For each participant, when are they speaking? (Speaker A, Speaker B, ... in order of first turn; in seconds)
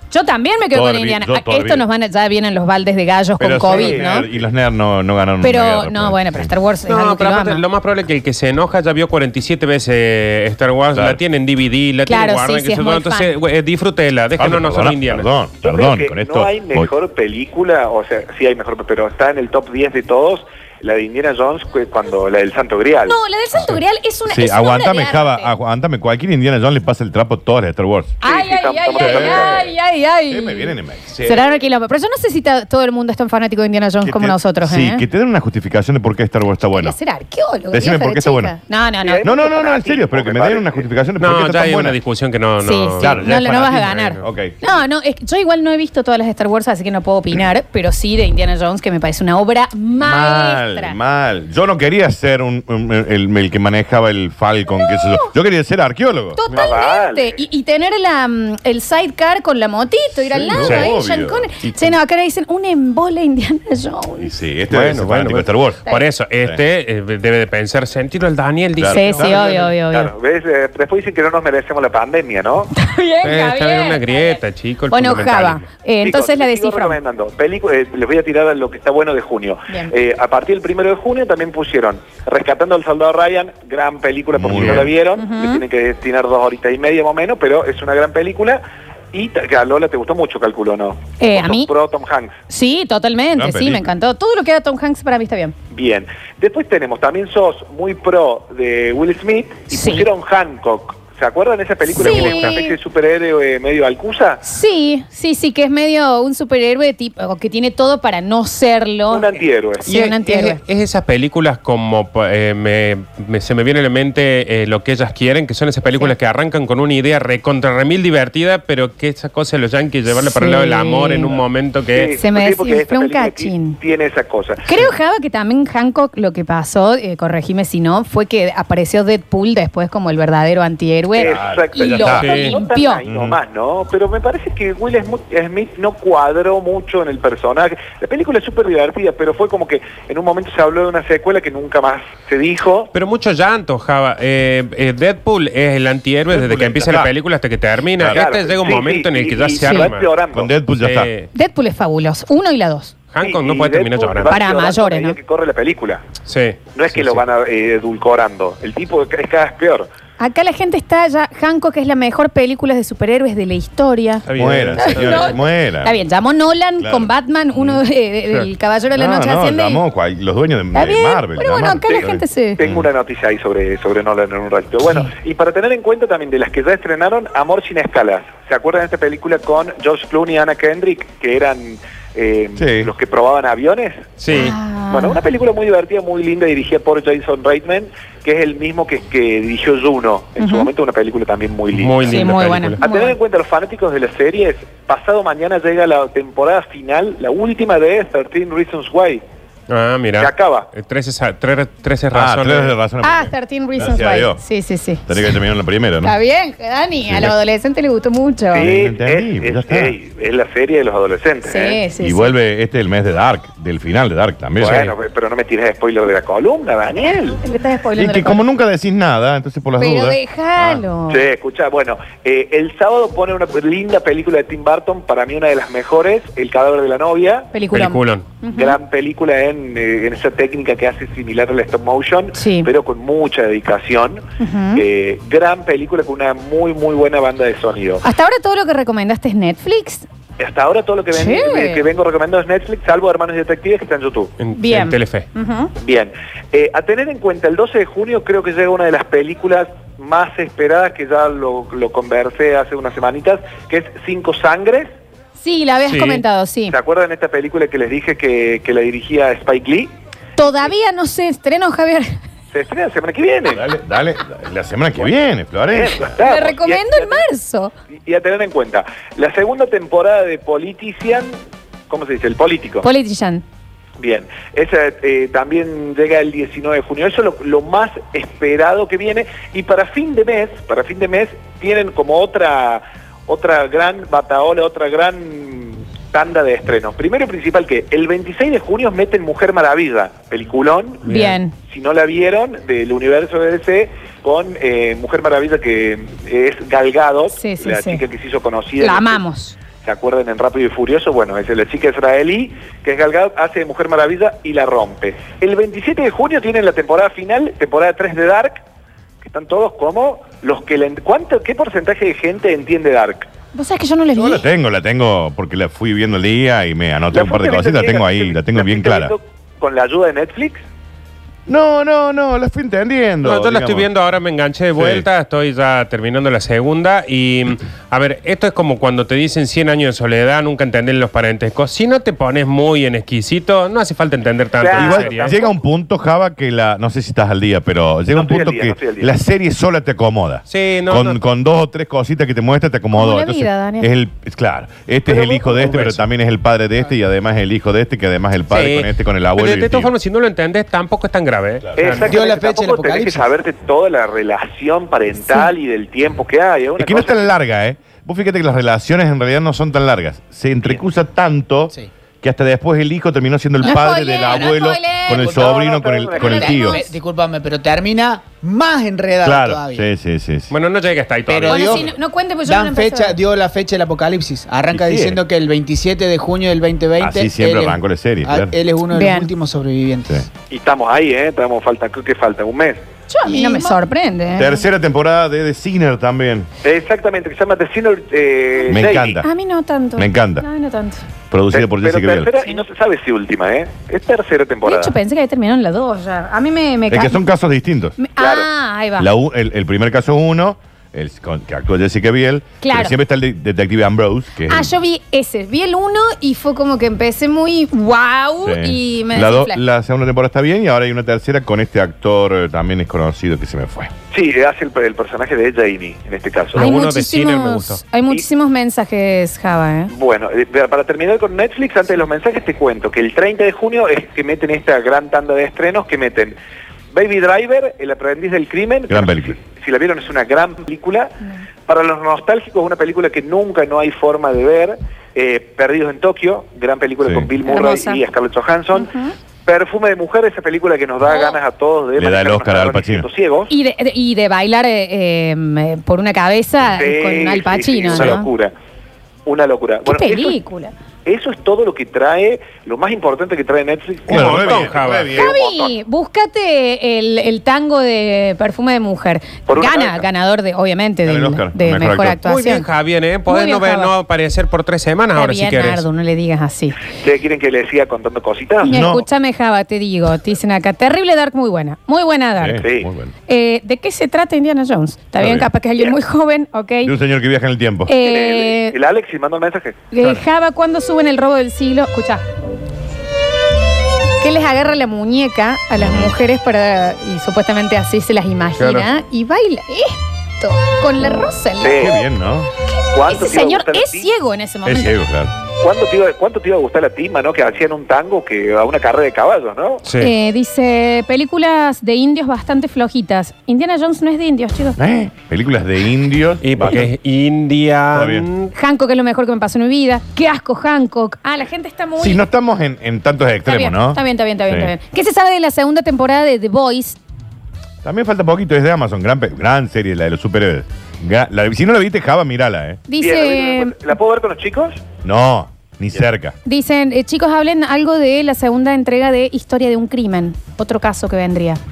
Speaker A: 0.1-4.3, 5.4-7.7, 12.0-13.3, 23.1-25.5, 28.2-35.0, 36.6-39.3, 42.6-51.0, 54.7-55.3, 56.3-64.3, 68.8-70.1, 72.7-77.0, 85.2-85.6, 91.2-91.7, 92.5-95.5, 99.7-100.1, 101.9-102.8, 104.4-109.3, 109.8-110.6, 120.3-121.4, 122.2-123.8, 124.7-133.1, 149.6-149.9, 151.3-152.9, 154.2-155.2, 160.2-169.8, 170.7-172.6, 174.8-175.1, 184.3-185.2, 190.4-190.7, 192.0-193.2, 203.0-205.3, 206.0-208.7, 211.4-212.3, 217.4-218.4, 219.8-221.3, 227.5-228.8, 232.3-232.7, 234.4-234.8, 238.0-240.1, 241.1-241.8, 244.6-245.7, 255.4-256.8, 260.4-262.2, 266.2-267.7, 272.8-273.4, 291.1-291.5, 297.3-298.0, 298.8-299.6, 313.5-314.4, 342.9-343.9, 363.6-366.9, 371.5-373.2, 378.9-379.3, 383.1-384.6, 388.5-391.0, 394.6-397.2, 398.0-399.1, 402.6-402.9, 404.5-409.6, 416.6-419.9, 437.4-438.0, 438.7-439.1, 443.5-448.3, 449.9-450.7, 455.1-462.7, 463.3-463.9, 465.1-466.8, 468.6-472.7, 473.3-476.9, 477.9-478.8, 479.9-482.2, 484.2-491.9, 493.1-494.9, 500.0-504.8, 508.5-512.2, 513.5-517.0, 522.9-523.8, 526.4-531.6
Speaker B: 0.7-1.9, 3.4-6.5, 10.9-11.2, 14.4-16.9, 24.3-28.1, 29.0-29.7, 30.3-31.5, 34.0-37.0, 37.7-38.5, 39.2-42.0, 43.0-44.6, 50.0-56.4, 60.3-61.9, 64.2-65.8, 68.8-69.6, 84.3-84.9, 93.3-93.9, 131.2-132.4, 133.1-133.4, 146.3-147.1, 150.3-151.1, 164.3-166.0, 166.8-167.8, 168.9-172.8, 182.6-182.9, 202.1-204.4, 205.1-206.2, 207.0-207.3, 208.5-209.9, 212.0-214.9, 218.0-220.8, 263.5-266.1, 314.1-319.1, 321.5-323.9, 324.7-325.1, 334.7-349.9, 356.8-366.8, 369.2-370.5, 374.7-375.2, 377.0-378.6, 384.3-386.5, 388.7-389.3, 390.0-390.4, 391.3-392.4, 396.9-398.0, 399.0-404.7, 408.4-413.9, 428.9-429.4, 437.0-437.3, 442.0-443.1, 454.1-455.2, 461.0-462.2, 468.7-469.0, 472.4-473.1, 475.2-475.5, 476.8-477.9, 485.8-486.1, 491.7-492.5, 494.6-495.3, 504.8-506.9, 507.9-508.3, 512.0-514.7, 517.8-522.8, 525.0-526.4
Speaker C: 3.7-4.2, 15.6-23.2, 28.2-29.7, 39.0-40.9, 56.5-57.4, 69.2-72.7, 76.0-88.6, 89.1-92.4, 95.7-104.4, 109.1-109.9, 121.9-124.7, 131.2-142.9, 148.0-150.5, 153.2-156.0, 156.7-159.9, 172.6-184.1, 184.9-199.2, 200.2-200.7, 208.5-211.8, 214.6-217.4, 221.1-227.5, 228.5-234.2, 234.7-238.0, 240.4-244.3, 245.8-254.9, 256.7-259.9, 262.5-263.6, 265.7-267.2, 268.0-271.4, 271.9-272.9, 274.0-291.1, 291.7-299.2, 299.8-308.6, 309.2-313.3, 317.1-320.6, 334.6-335.6, 338.1-339.1, 345.1-345.8, 351.8-357.3, 365.1-366.7, 380.5-382.8, 386.6-389.2, 391.5-394.9, 398.2-398.5, 414.1-416.7, 419.9-426.4, 426.9-431.1, 431.7-438.9, 439.4-443.5, 446.7-448.5, 449.2-450.4, 451.1-455.8, 459.5-460.1, 466.9-468.9, 472.6-472.9, 478.0-479.8, 491.6-491.9, 492.9-494.1, 495.6-499.9, 523.0-524.8
Speaker D: 6.9-15.3, 41.2-44.3, 60.5-60.9, 64.7-69.4, 73.2-75.7, 84.5-84.9, 102.0-102.6, 109.9-122.1, 132.1-132.6, 142.9-150.1, 150.8-151.3, 153.1-154.3, 156.2-157.2, 164.2-165.3, 184.2-184.6, 191.7-192.8, 199.7-202.8, 227.7-228.2, 244.4-245.3, 255.9-256.2, 291.0-291.4, 323.2-335.4, 340.5-341.2, 345.6-346.0, 348.5-352.1, 370.5-371.8, 416.5-417.8, 454.1-455.1, 462.2-465.9, 488.6-488.9, 499.8-500.1, 506.4-508.5
Speaker E: 352.0-353.3, 363.6-364.4, 366.7-369.9, 371.2-380.2, 383.3-383.8